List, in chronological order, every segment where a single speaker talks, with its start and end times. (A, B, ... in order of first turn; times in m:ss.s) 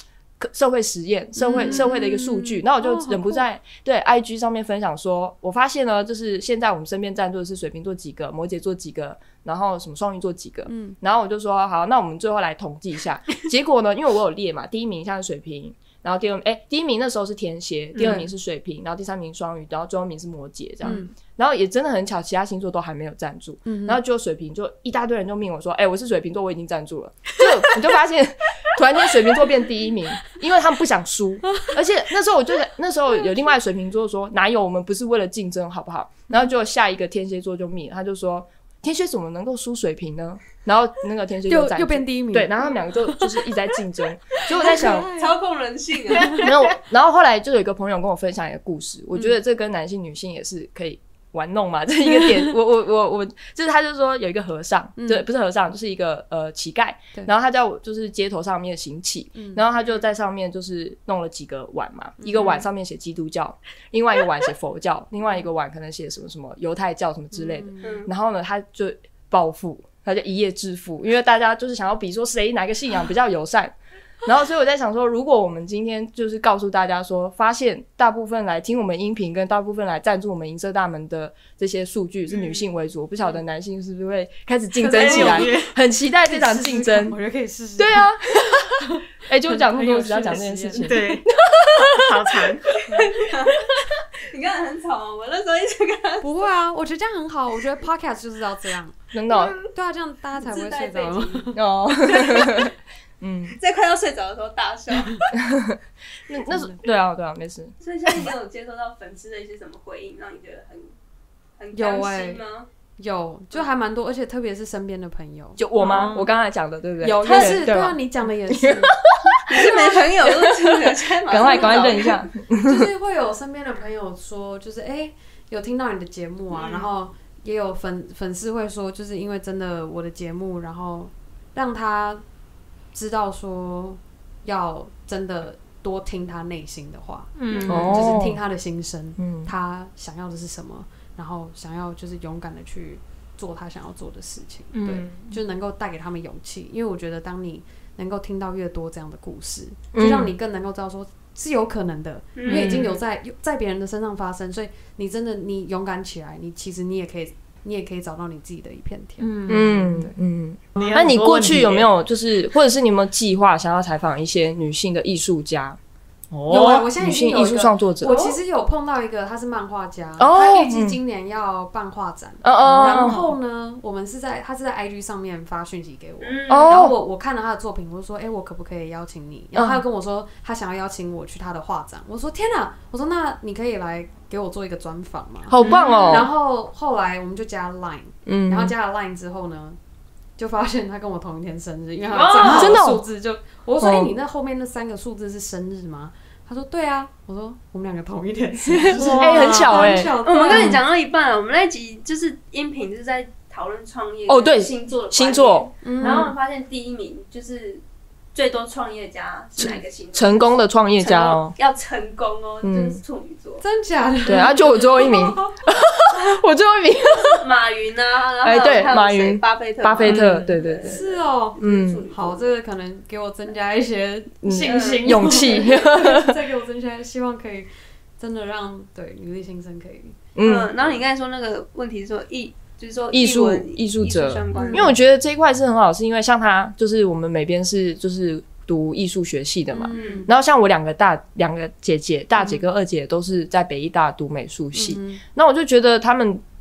0:00.4-0:45.1 A
0:01.4-0:03.4 B
0:01.5-0:01.8 C
0:10.7-0:11.0 B
0:18.0-0:18.2 C
0:18.0-0:18.3 B
0:20.8-0:21.1 B
0:23.6-0:24.0 B
0:41.4-0:43.5 B
0:44.5-0:45.4 B
0:44.5-0:46.4 D
0:46.1-0:46.5 B
0:46.3-1:27.2 A
0:55.0-0:55.2 B
0:59.3-0:59.6 B
1:02.2-1:02.7 B
1:07.3-1:07.9 B
1:07.8-1:08.1 D
1:24.7-1:31.2 B
1:25.0-1:25.7 C
1:27.8-1:31.2 A
1:30.8-1:32.8 C
1:32.9-1:36.5 D
1:36.2-1:39.0 B
1:39.1-1:39.6 A
1:39.6-1:41.6 B
1:40.4-1:42.7 D
1:41.5-1:43.6 A
1:43.6-1:45.3 D
1:45.3-1:47.8 A
1:46.4-1:46.8 B
1:47.8-1:50.9 D
1:51.6-1:52.7 D
1:51.7-1:52.4 B
1:53.0-1:55.6 B
1:55.6-2:02.9 A
1:55.8-1:56.3 C
1:57.0-1:59.0 B
1:59.5-2:02.3 D
2:01.4-2:12.2 B
2:06.5-2:06.9 D
2:12.9-2:40.1 B
2:17.4-2:18.0 C
2:17.5-2:18.0 D
2:17.7-2:18.4 A
2:19.2-2:19.5 A
2:24.7-2:25.2 C
2:29.9-2:30.3 A
2:32.3-2:32.8 D
2:32.5-2:32.9 C
2:32.5-2:32.8 A
2:39.2-2:40.0 C
2:39.5-2:45.8 A
2:40.8-2:41.9 C
2:46.3-2:48.2 A
2:46.5-3:09.8 B
2:48.0-2:48.4 D
2:50.2-2:51.0 A
2:52.4-2:53.3 A
2:56.2-2:56.8 D
2:56.5-2:56.9 A
2:59.5-2:59.8 A
3:05.5-3:06.3 A
3:05.6-3:06.3 D
3:08.2-3:08.7 A
3:10.4-3:20.8 B
3:12.1-3:12.8 D
3:12.4-3:13.0 A
3:13.8-3:14.1 A
3:18.7-3:20.8 A
3:18.9-3:19.9 C
3:19.8-3:27.8 D
3:24.3-3:26.3 A
3:25.8-3:26.3 B
3:28.3-3:33.6 D
3:29.6-3:31.6 A
3:32.6-3:33.0 A
3:33.6-3:35.4 B
3:34.2-3:37.4 A
3:37.2-3:42.5 D
3:38.4-3:41.0 A
3:40.0-3:40.5 C
3:40.8-3:50.2 B
3:41.6-3:42.0 A
3:44.4-3:46.4 A
3:44.6-3:45.8 D
3:50.4-3:50.7 A
3:50.4-3:54.9 D
3:53.1-4:06.4 A
3:54.5-3:55.0 B
3:59.7-4:00.3 B
3:59.9-4:00.3 D
4:04.7-4:05.2 B